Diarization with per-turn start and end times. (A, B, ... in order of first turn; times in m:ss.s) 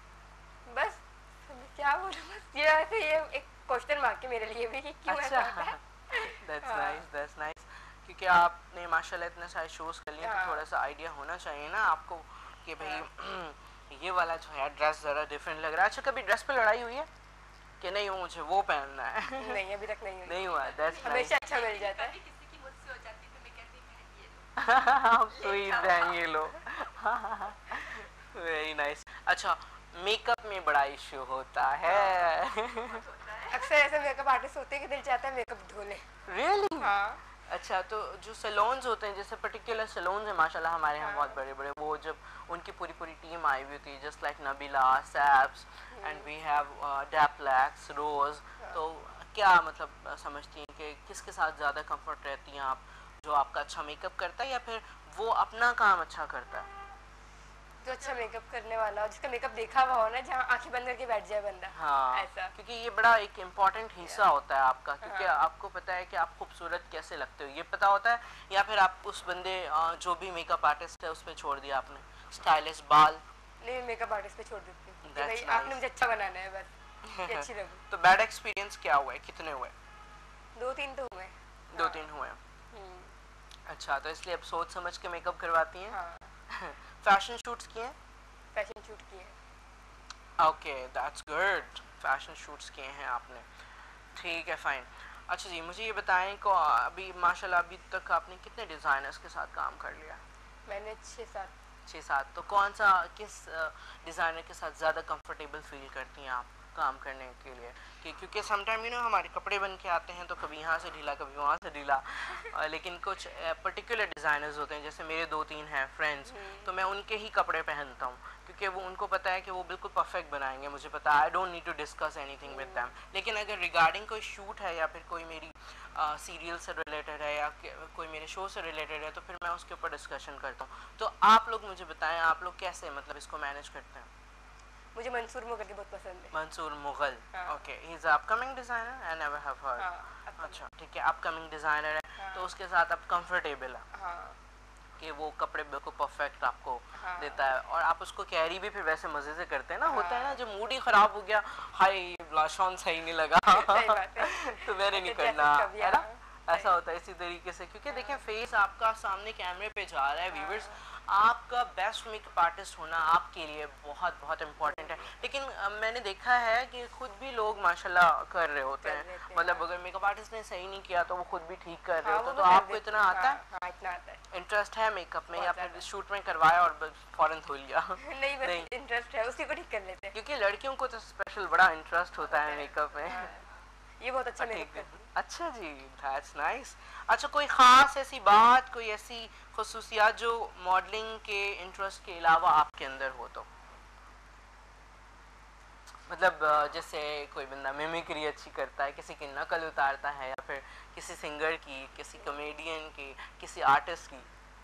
0:00.7-0:07.0 A
0:05.1-0:17.1 B
0:10.2-0:10.6 A
0:12.8-0:13.0 A
0:17.8-0:19.7 B
0:19.4-0:20.4 A
0:20.2-0:21.4 B
0:20.4-0:24.5 C
0:21.0-0:22.2 A
0:24.6-0:33.0 B
0:25.3-0:26.9 C
0:27.7-0:28.0 C
0:31.9-0:32.2 A
0:32.7-0:33.7 C
0:33.5-0:36.1 A
0:36.3-0:37.0 B
0:36.8-0:37.2 A
0:37.5-0:56.7 B
0:41.0-0:41.4 A
0:45.9-0:46.3 A
0:57.8-1:02.5 A
1:01.7-1:13.2 B
1:05.0-1:05.4 A
1:13.6-1:17.8 A
1:15.0-1:15.8 B
1:17.0-1:19.7 B
1:20.6-1:22.0 A
1:21.7-1:22.4 B
1:22.7-1:23.1 A
1:23.7-1:26.0 B
1:25.9-1:26.3 A
1:26.5-1:28.0 B
1:28.5-1:29.4 A
1:30.4-1:33.5 B
1:34.2-1:40.2 B
1:40.7-1:41.5 A
1:41.8-2:14.1 B
1:56.3-1:56.7 A
2:02.5-2:02.8 A
2:15.0-2:16.3 A
2:16.3-2:23.8 B
2:17.3-2:17.6 A
2:19.8-2:20.6 A
2:22.2-2:22.5 A
2:23.9-2:24.4 A
2:25.0-2:53.4 B
2:27.0-2:27.4 A
2:29.8-2:30.4 A
2:33.5-2:36.7 A
2:37.9-2:38.2 A
2:40.3-2:40.8 A
2:44.6-2:45.1 A
2:48.8-2:49.6 A
2:52.0-2:54.2 A
2:54.3-2:58.7 B
2:55.3-2:55.8 A
2:58.0-3:00.2 A
3:00.1-3:03.3 B
3:02.3-3:03.4 A
3:03.0-3:03.4 C
3:04.0-3:04.9 A
3:04.4-3:13.5 B
3:16.1-3:24.3 B